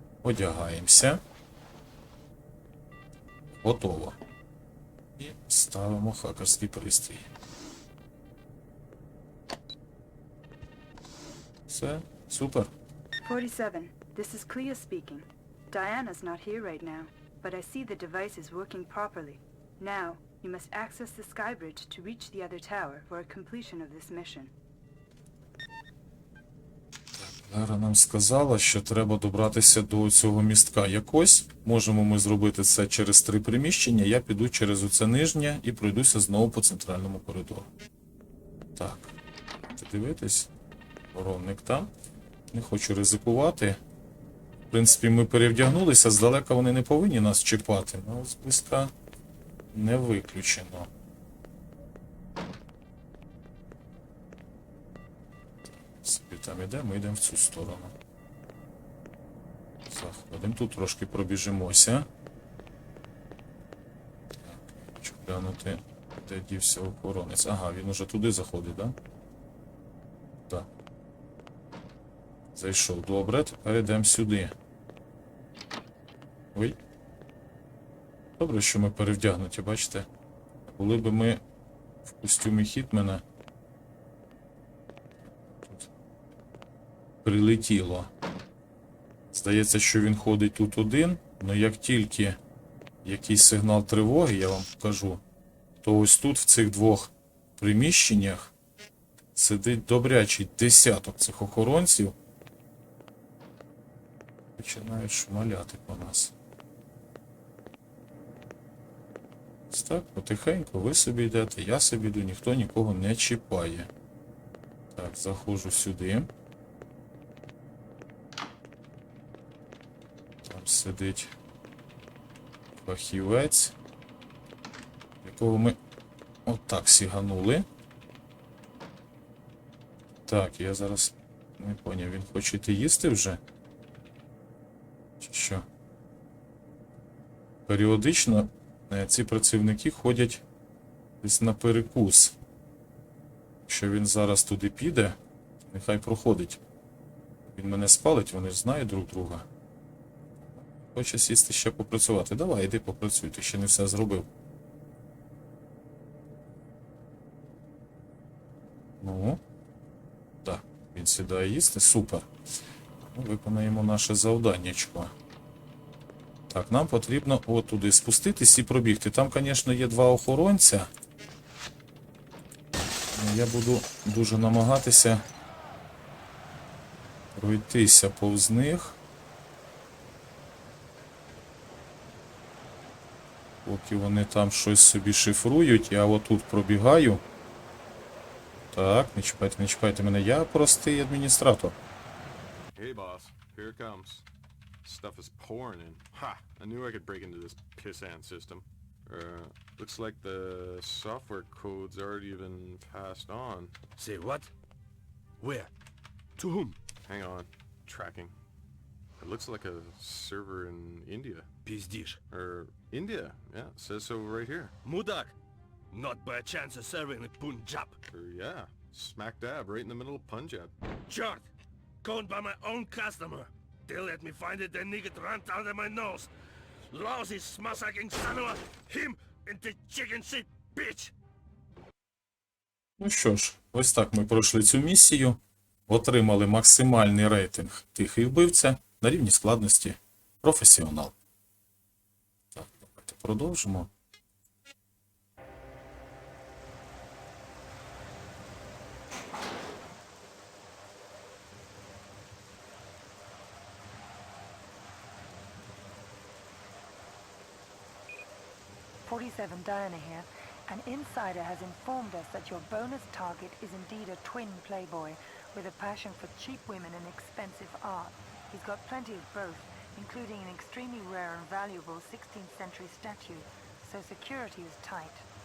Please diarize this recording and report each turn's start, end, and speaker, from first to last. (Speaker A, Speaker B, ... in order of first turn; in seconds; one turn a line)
Speaker A: 0.2-1.2
Speaker A: 3.6-4.2
Speaker A: 5.2-7.2
Speaker A: 11.7-12.7
Speaker B: 13.2-24.5
Speaker A: 27.2-37.7
Speaker A: 38.8-39.1
Speaker A: 39.8-40.5
Speaker A: 41.1-41.9
Speaker A: 42.5-43.8
Speaker A: 44.7-48.9
Speaker A: 49.7-50.9
Speaker A: 56.0-57.9
Speaker A: 59.9-62.1
Speaker A: 64.4-68.9
Speaker A: 72.5-74.5
Speaker A: 78.4-80.1
Speaker A: 80.7-81.4
Speaker A: 82.0-83.2
Speaker A: 85.6-85.9
Speaker A: 87.2-88.1
Speaker A: 89.3-92.4
Speaker A: 93.0-95.2
Speaker A: 95.8-98.5
Speaker A: 99.3-102.1
Speaker A: 104.6-106.3
Speaker A: 109.7-113.9
Speaker A: 114.9-116.3
Speaker A: 120.4-121.3
Speaker A: 122.8-123.7
Speaker A: 125.2-125.8
Speaker A: 126.5-127.7
Speaker A: 130.3-133.4
Speaker A: 135.2-135.6
Speaker A: 137.7-140.4
Speaker A: 141.2-142.3
Speaker A: 143.7-146.6
Speaker A: 147.5-149.4
Speaker A: 150.6-154.3
Speaker A: 159.0-159.4
Speaker A: 160.4-162.3
Speaker A: 163.0-165.1
Speaker A: 166.5-170.9
Speaker A: 173.1-175.2
Speaker A: 177.3-179.0
Speaker A: 183.6-187.2
Speaker A: 188.7-191.8
Speaker C: 192.7-194.2
Speaker C: 194.8-203.8
Speaker D: 204.0-204.5
Speaker D: 205.4-205.7
Speaker D: 206.4-206.8
Speaker C: 207.0-208.3
Speaker C: 209.2-211.5
Speaker D: 211.6-212.2
Speaker C: 212.3-214.8
Speaker D: 214.8-215.3
Speaker D: 215.9-218.0
Speaker C: 218.1-220.7
Speaker D: 221.1-221.5
Speaker D: 222.0-226.3
Speaker D: 226.8-231.1
Speaker A: 233.0-241.1
Speaker A: 242.5-243.9
Speaker E: 259.0-275.3